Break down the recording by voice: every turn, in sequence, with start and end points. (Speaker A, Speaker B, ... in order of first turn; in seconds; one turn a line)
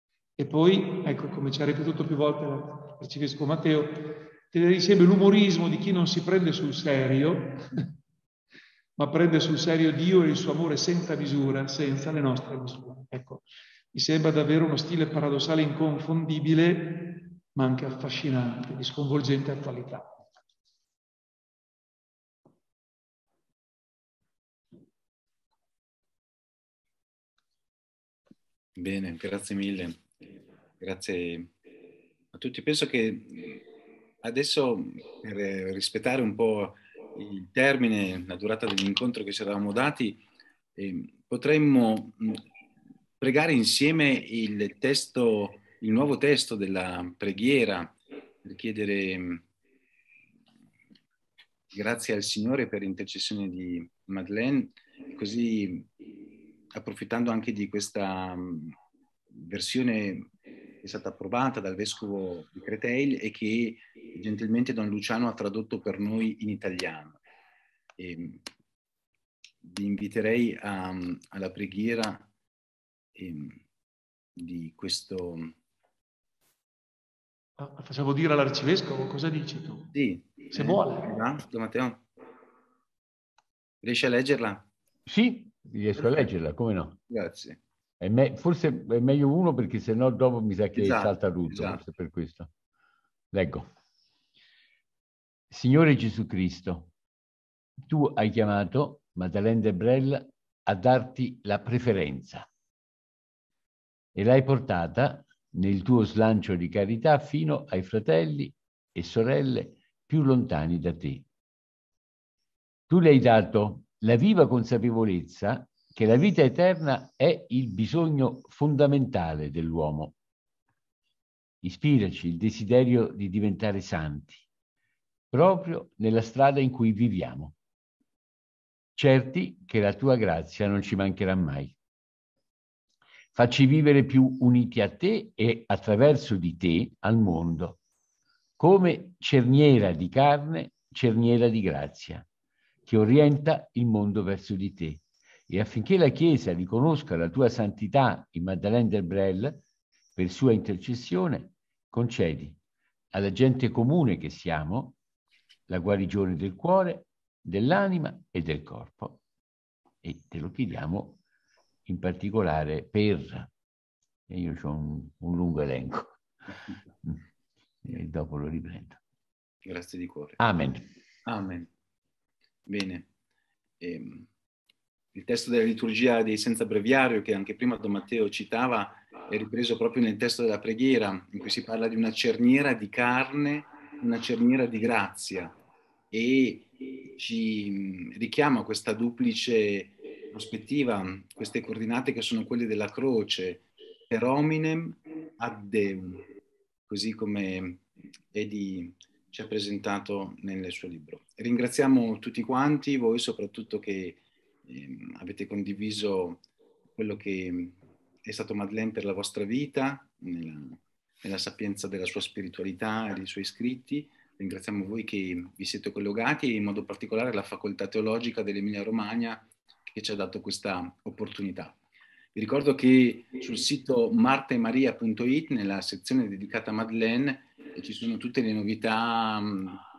Speaker A: 0.4-7.9
Speaker A: 9.0-20.1
Speaker B: 28.8-30.0
Speaker B: 30.8-31.5
Speaker B: 32.3-33.6
Speaker B: 34.2-40.2
Speaker B: 40.8-42.4
Speaker B: 43.2-49.5
Speaker B: 51.7-55.9
Speaker B: 56.7-58.8
Speaker B: 59.3-60.3
Speaker B: 60.8-67.2
Speaker B: 68.0-68.4
Speaker B: 69.6-72.3
Speaker B: 73.1-73.6
Speaker B: 74.4-75.5
Speaker A: 77.6-79.9
Speaker B: 79.9-82.0
Speaker A: 80.5-81.1
Speaker B: 83.8-84.7
Speaker C: 85.1-87.0
Speaker B: 86.0-86.3
Speaker B: 87.1-87.6
Speaker C: 88.0-92.5
Speaker B: 90.8-91.8
Speaker C: 93.3-93.7
Speaker C: 95.5-96.9
Speaker C: 97.9-102.5
Speaker C: 104.1-111.2
Speaker C: 112.9-120.1
Speaker C: 121.6-124.4
Speaker C: 125.3-127.5
Speaker C: 128.9-131.8
Speaker C: 133.3-137.8
Speaker C: 138.6-142.2
Speaker C: 142.8-149.6
Speaker C: 150.2-152.6
Speaker C: 153.1-155.0
Speaker C: 155.7-159.2
Speaker C: 160.0-161.2
Speaker C: 161.8-163.5
Speaker C: 164.3-166.2
Speaker C: 167.8-169.0
Speaker B: 169.6-170.4
Speaker C: 170.4-170.8
Speaker B: 171.2-171.7
Speaker B: 172.7-173.1
Speaker B: 173.8-174.3
Speaker B: 175.1-185.5
Speaker B: 186.1-196.2
Speaker B: 196.9-206.4
Speaker B: 207.0-221.8
Speaker B: 222.3-229.8